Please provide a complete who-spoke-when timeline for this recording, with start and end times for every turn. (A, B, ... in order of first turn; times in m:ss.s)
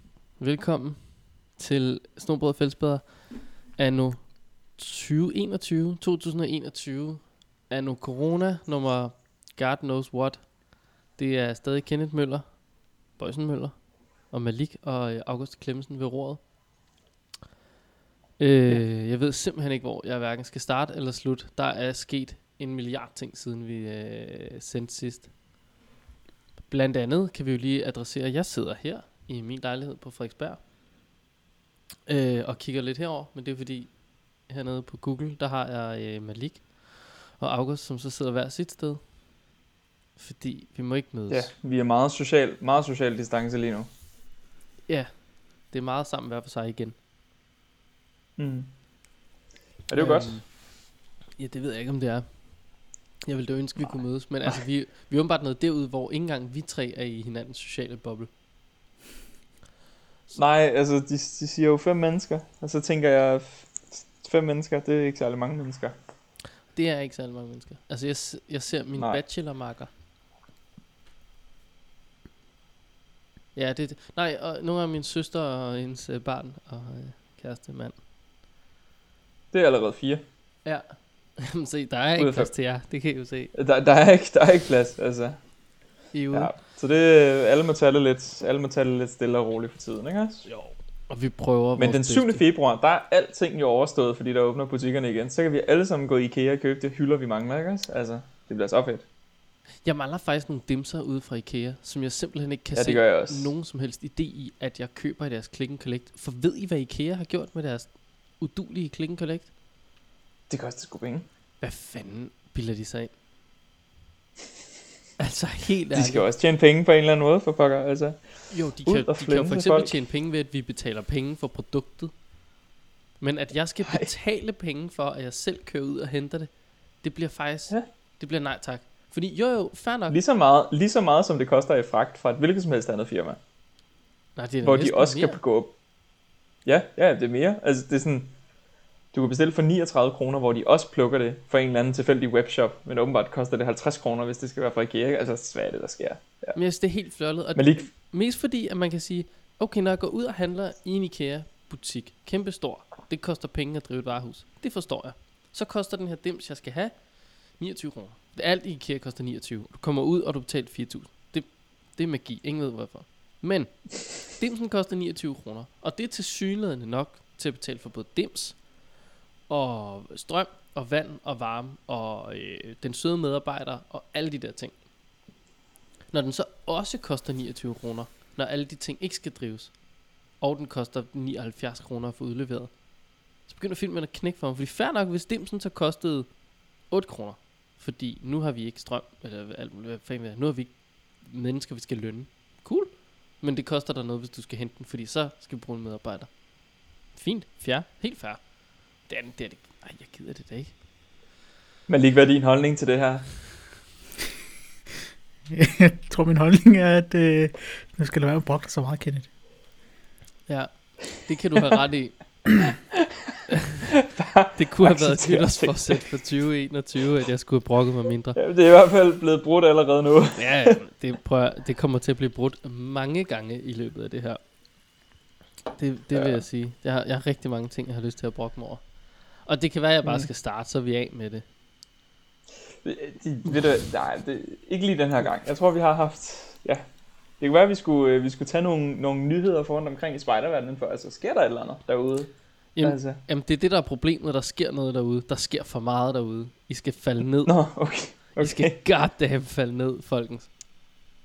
0:00.4-0:16.5 A
0:18.4-0:25.3 A
0:26.7-0:30.6 A
0:32.0-0:39.0 A
0:40.2-0:41.5 A
0:41.3-0:43.9 B
0:44.9-0:47.0 A
0:48.4-0:48.7 B
0:49.9-0:50.4 B
0:50.0-0:50.6 A
0:51.4-0:58.3 A
1:00.3-1:05.9 B
1:06.7-1:09.9 A
1:13.5-1:18.0 A
1:19.5-1:20.2 B
1:20.6-1:23.5 A
1:22.2-1:22.7 B
1:23.5-1:25.5 B
1:26.1-1:26.5 A
1:26.3-1:30.5 B
1:30.4-1:32.4 A
1:31.8-1:39.0 B
1:39.8-1:49.5 A
1:42.7-1:43.5 B
1:50.5-1:51.2 B
1:51.6-1:53.1 A
1:55.2-1:56.2 A
1:55.9-2:00.0 B
1:58.5-2:02.1 A
2:03.2-2:10.2 A
2:03.8-2:04.1 B
2:10.1-2:13.4 B
2:14.4-2:15.4 A
2:14.6-2:15.8 B
2:16.6-2:18.4 B
2:19.1-2:26.6 B
2:26.5-2:48.7 A
2:27.5-2:27.9 B
2:49.5-2:54.8 A
2:56.1-3:02.8 A
3:03.4-3:20.7 A
3:21.9-3:23.5 B
3:25.5-3:29.3 C
3:30.5-3:32.4 A
3:34.1-3:36.1 B
3:34.6-3:38.4 A
3:38.3-3:40.8 B
3:40.4-3:44.4 A
3:45.7-3:51.4 A
3:46.1-3:46.4 B
3:52.8-3:56.8 B
3:57.4-4:03.2 B
4:02.7-4:10.5 A
4:07.4-4:08.8 B